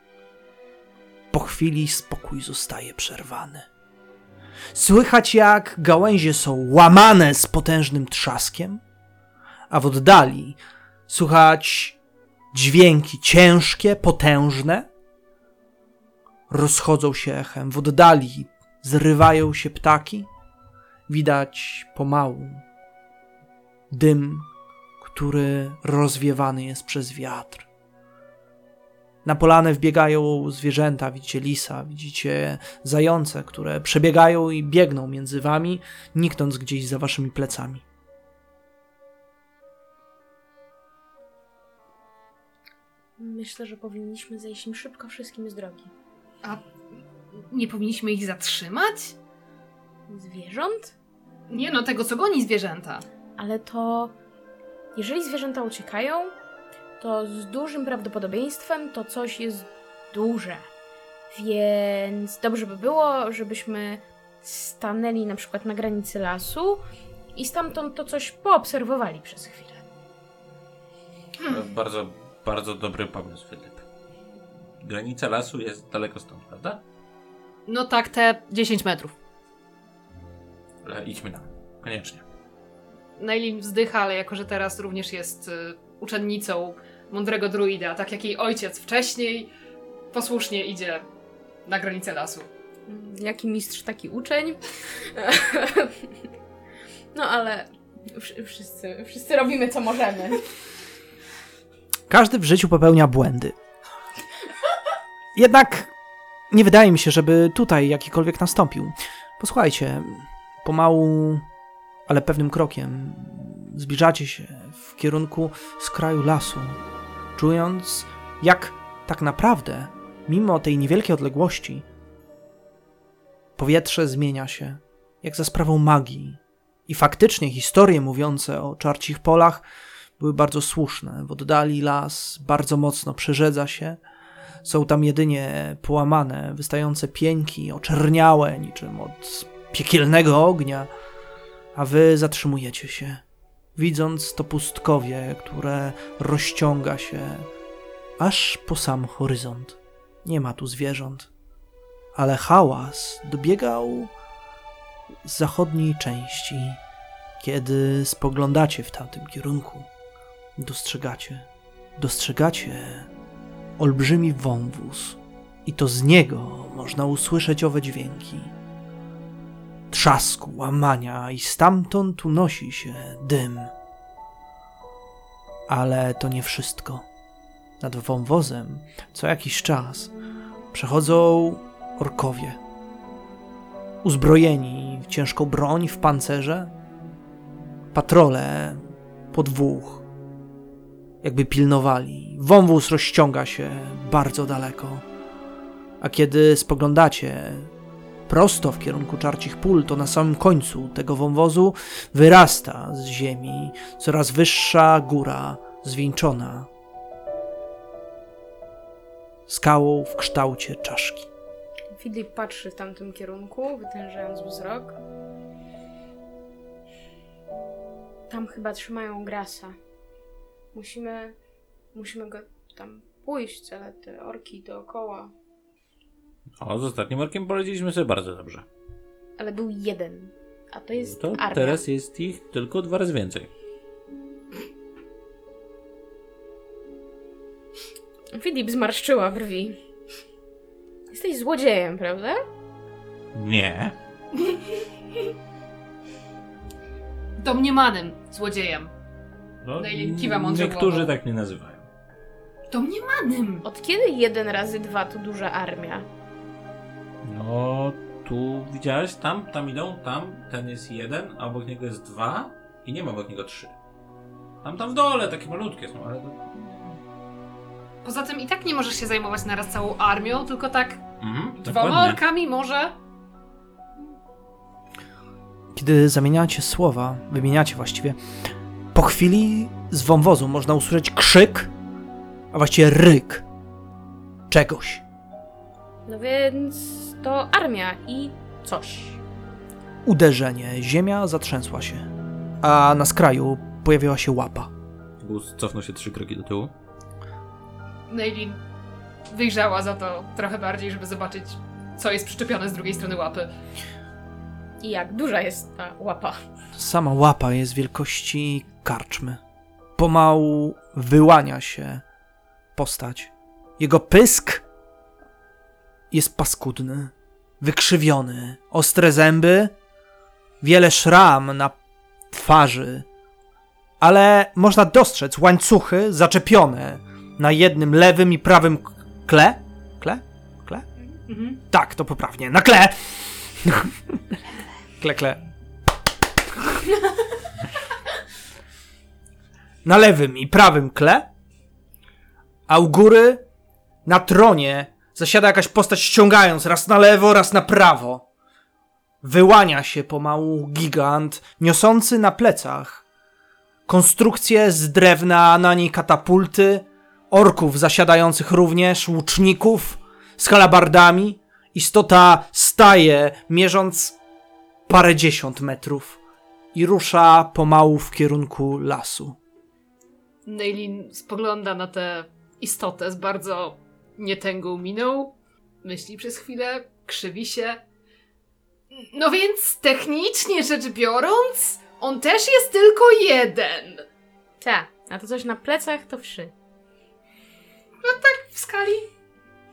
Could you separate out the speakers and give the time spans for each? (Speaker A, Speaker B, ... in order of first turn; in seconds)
Speaker A: 1.3-3.7, 4.7-8.8, 9.7-12.0, 12.5-14.9, 16.5-20.3, 21.1-22.6, 23.9-24.5, 25.0-27.6, 29.2-37.8, 102.1-103.5, 105.3-105.9, 106.5-111.4, 112.1-116.8, 117.4-121.8, 123.6-129.6, 130.2-134.0, 134.7-140.9, 141.8-143.2, 143.8-147.5, 148.2-151.3, 152.2-154.1, 155.2-156.8, 157.4-159.9, 160.6-163.1, 163.8-168.5, 169.9-173.7, 175.7-177.1, 177.8-180.1, 180.7-182.6, 184.0-186.7, 187.9-188.8, 189.3-190.0, 191.2-195.0, 196.0-197.7, 198.3-206.7, 209.5-211.3, 275.7-278.2, 278.9-281.7, 282.5-283.4, 284.5-285.0, 290.1-292.1, 292.6-294.7, 306.8-309.4, 310.0-312.0, 312.8-314.6, 316.1-319.7, 320.6-321.8, 322.3-323.1, 324.0-330.9, 331.7-334.4, 335.0-335.4, 339.9-341.3, 342.7-343.4, 344.1-348.2, 349.2-353.0, 353.9-364.2, 364.9-366.2, 366.7-369.4
Speaker B: 43.2-45.9, 50.1-50.9, 53.4-54.1, 55.0-56.3, 57.0-60.7, 61.3-66.8, 67.3-69.8, 92.9-96.1, 97.1-100.5, 211.9-215.0, 218.3-219.8, 220.7-221.4, 221.9-225.3, 229.4-231.8, 238.3-239.8, 241.1-242.4, 253.6-256.1, 286.1-289.2, 304.8-306.4, 384.6-386.5
Speaker C: 47.5-49.1, 51.5-53.0, 77.7-79.2, 83.2-89.5, 90.1-91.0, 91.7-92.5, 247.4-248.9, 249.8-251.1, 252.7-253.6, 268.0-271.0, 271.6-273.0, 298.1-298.6, 299.3-303.5, 331.3-331.6, 370.4-377.8, 378.9-384.1, 388.0-389.1
Speaker D: 71.4-73.8, 74.8-76.8, 80.8-82.2, 226.6-228.7, 231.0-233.5, 243.3-244.0, 249.6-251.9, 257.2-263.8, 264.6-267.0, 271.2-272.2, 295.2-296.7